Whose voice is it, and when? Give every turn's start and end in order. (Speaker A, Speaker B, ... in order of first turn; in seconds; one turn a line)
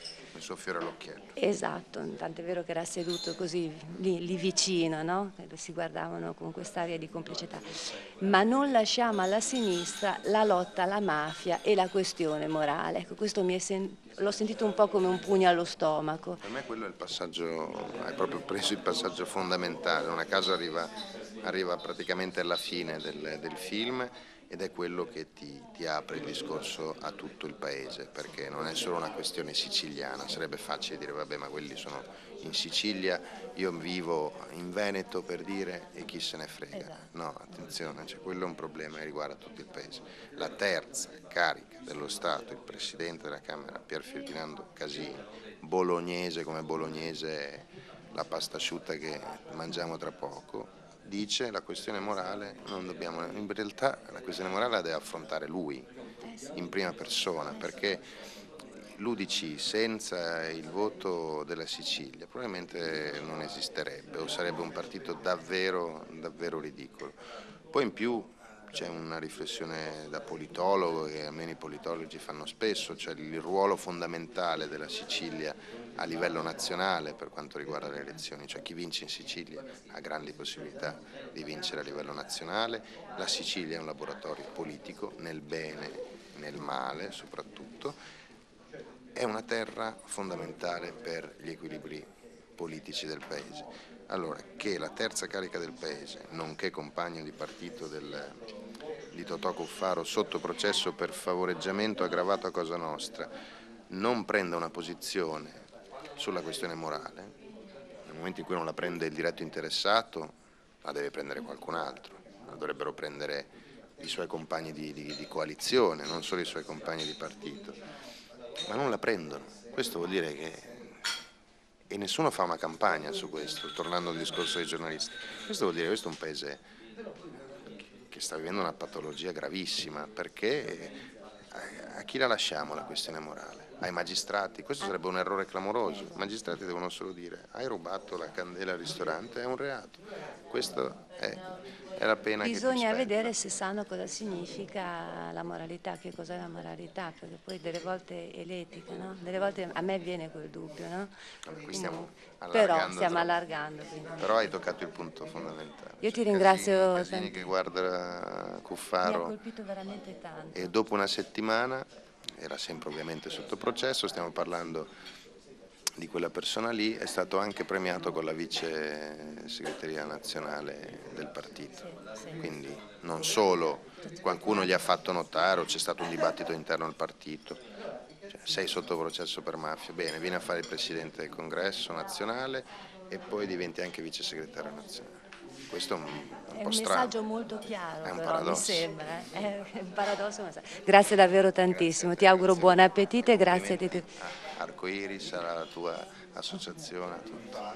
Speaker A: 0.3-1.3
Speaker B: 1.4-16.4
Speaker A: 16.4-20.9
Speaker A: 21.4-55.9
Speaker A: 56.5-58.0
Speaker A: 58.9-67.2
Speaker A: 67.7-88.0
Speaker A: 89.1-98.3
Speaker A: 99.1-103.3
Speaker A: 103.9-105.6
Speaker A: 106.2-107.3
Speaker A: 108.0-117.8
Speaker A: 118.7-120.9
Speaker A: 121.9-126.6
Speaker A: 128.0-130.9
Speaker A: 131.5-141.4
Speaker A: 141.9-143.3
Speaker B: 142.4-151.1
Speaker A: 151.4-153.3
Speaker B: 151.7-154.3
Speaker A: 154.2-159.3
Speaker B: 156.0-157.4
Speaker B: 159.0-160.7
Speaker A: 160.5-164.9
Speaker A: 166.0-177.6
Speaker A: 178.3-185.2
Speaker A: 185.7-187.1
Speaker B: 186.5-194.1
Speaker A: 188.0-188.9
Speaker A: 191.7-197.6